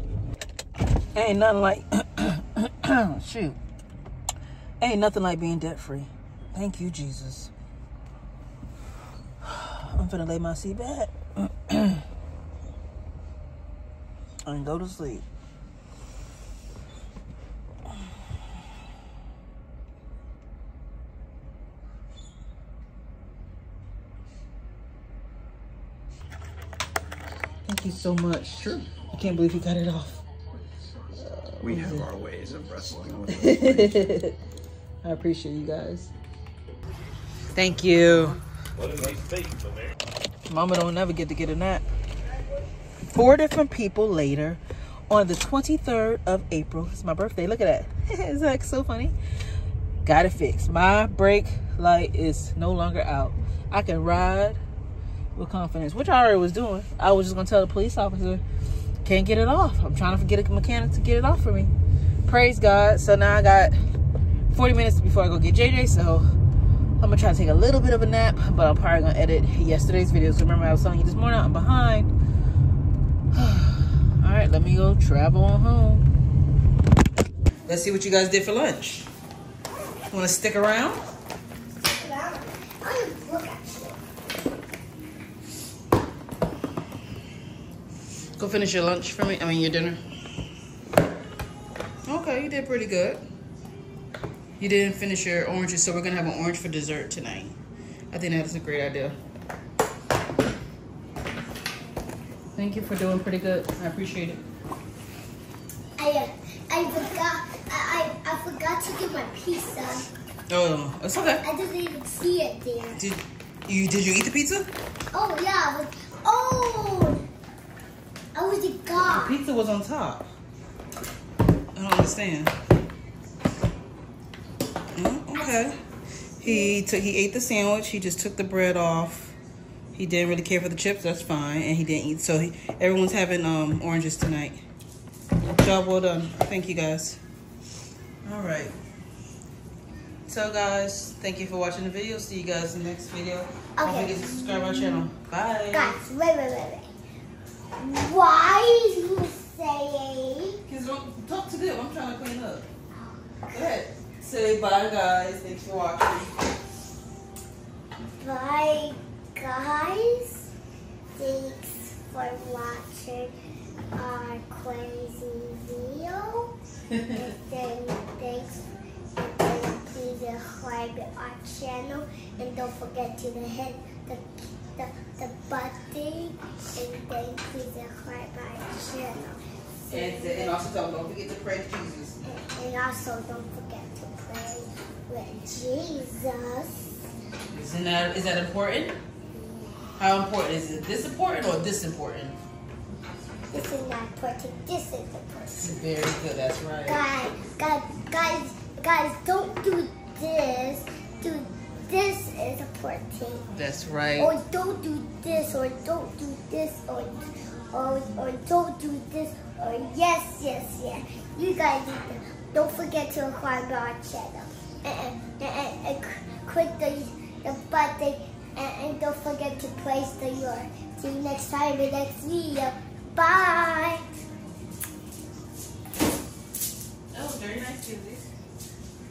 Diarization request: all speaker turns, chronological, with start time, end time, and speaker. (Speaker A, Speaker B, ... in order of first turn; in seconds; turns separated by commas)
Speaker A: 1.1-3.6, Speaker A: 4.8-7.5, Speaker A: 9.4-12.0, Speaker A: 14.5-15.2, Speaker A: 27.6-30.2, Speaker A: 31.1-32.2, Speaker B: 31.6-33.9, Speaker A: 32.9-34.4, Speaker A: 35.0-36.1, Speaker A: 37.5-38.4, Speaker A: 40.5-41.9, Speaker A: 43.1-49.1, Speaker A: 50.0-54.6, Speaker A: 55.4-58.4, Speaker A: 59.0-61.7, Speaker A: 62.2-63.8, Speaker A: 64.5-66.3, Speaker A: 67.0-72.1, Speaker A: 73.3-76.1, Speaker A: 77.7-79.1, Speaker A: 80.1-81.0, Speaker C: 82.0-84.0, Speaker A: 88.4-90.0, Speaker A: 92.1-93.2, Speaker A: 94.6-97.6, Speaker A: 98.1-99.2, Speaker A: 102.5-104.4, Speaker C: 106.0-110.1, Speaker A: 110.5-111.5, Speaker C: 111.5-113.0, Speaker A: 112.9-114.7, Speaker C: 115.1-117.2, Speaker C: 118.3-119.3, Speaker A: 119.0-120.3, Speaker A: 121.8-122.5, Speaker A: 125.0-125.8, Speaker A: 126.4-129.4, Speaker A: 129.9-134.7, Speaker A: 135.5-137.2, Speaker A: 138.2-138.8, Speaker A: 140.3-146.0, Speaker C: 143.8-144.2, Speaker C: 145.7-146.9, Speaker C: 147.8-150.6, Speaker A: 150.7-152.7, Speaker C: 152.9-153.3, Speaker A: 153.5-156.3, Speaker C: 158.2-160.5, Speaker C: 161.2-163.3, Speaker C: 163.9-166.5, Speaker C: 167.1-180.6, Speaker A: 179.9-182.2, Speaker C: 182.2-187.0, Speaker A: 187.5-189.0, Speaker A: 190.0-192.4, Speaker C: 193.5-195.6, Speaker A: 195.5-197.1, Speaker C: 196.8-203.5, Speaker A: 203.5-204.3, Speaker C: 204.2-224.1, Speaker A: 227.1-228.3